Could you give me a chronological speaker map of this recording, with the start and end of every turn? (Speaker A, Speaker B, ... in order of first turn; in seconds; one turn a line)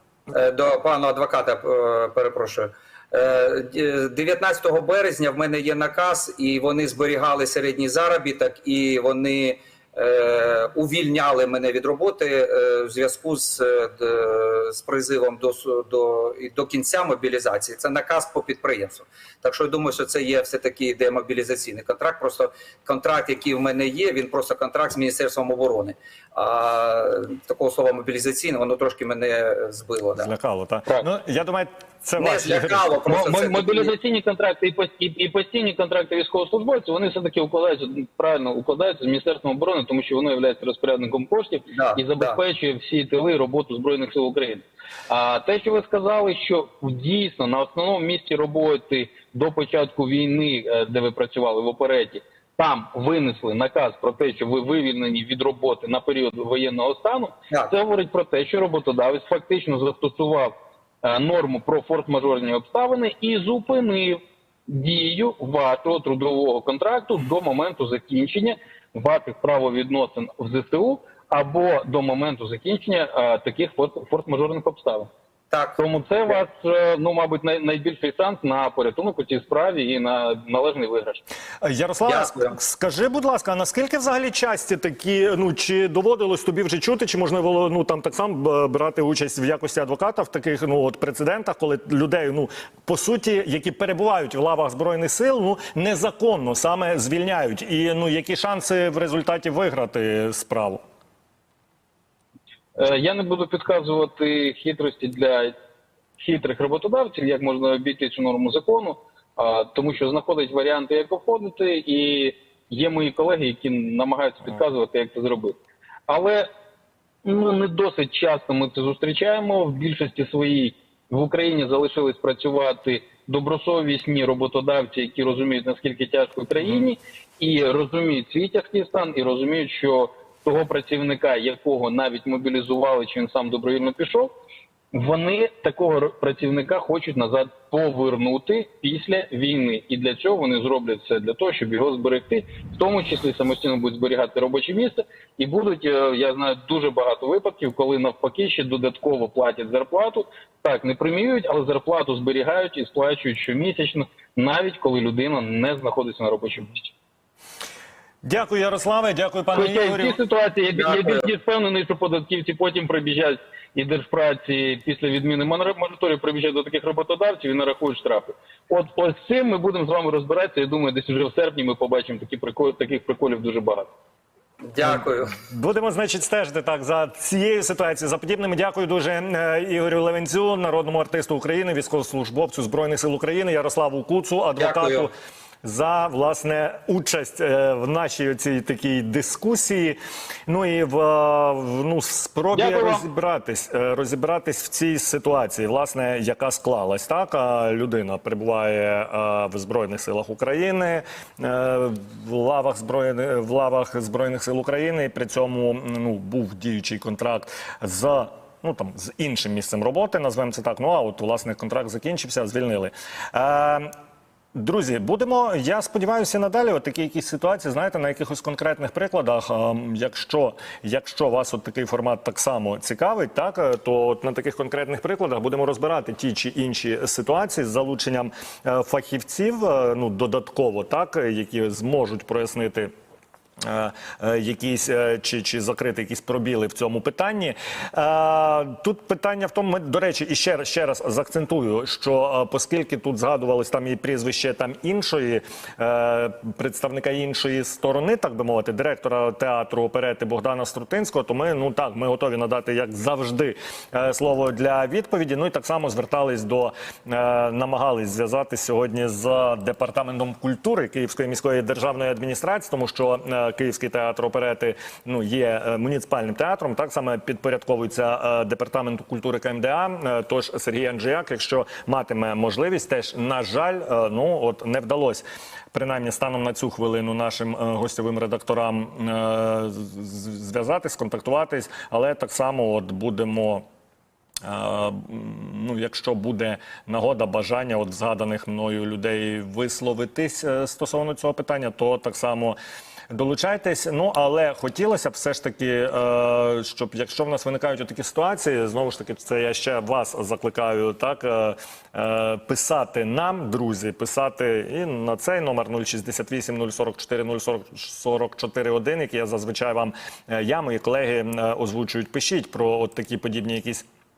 Speaker A: 0.3-30.3
Speaker B: 30.2-32.9
Speaker A: 32.2-33.9
Speaker C: 33.1-75.1
Speaker A: 41.7-42.4
Speaker A: 75.5-75.8
Speaker C: 75.8-81.2
Speaker B: 81.6-100.8
Speaker A: 82.0-82.6
Speaker C: 102.7-105.5
Speaker C: 106.2-115.6
Speaker C: 116.1-116.5
Speaker C: 117.2-134.3
Speaker C: 134.9-156.9
Speaker B: 158.2-160.2
Speaker C: 159.5-173.9
Speaker A: 160.8-161.3
Speaker A: 174.6-175.3
Speaker B: 174.8-185.1
Speaker A: 184.6-185.1
Speaker B: 185.6-213.9
Speaker C: 192.5-193.0
Speaker B: 214.5-232.9
Speaker B: 233.6-283.6
Speaker B: 284.4-292.6
Speaker B: 293.1-313.8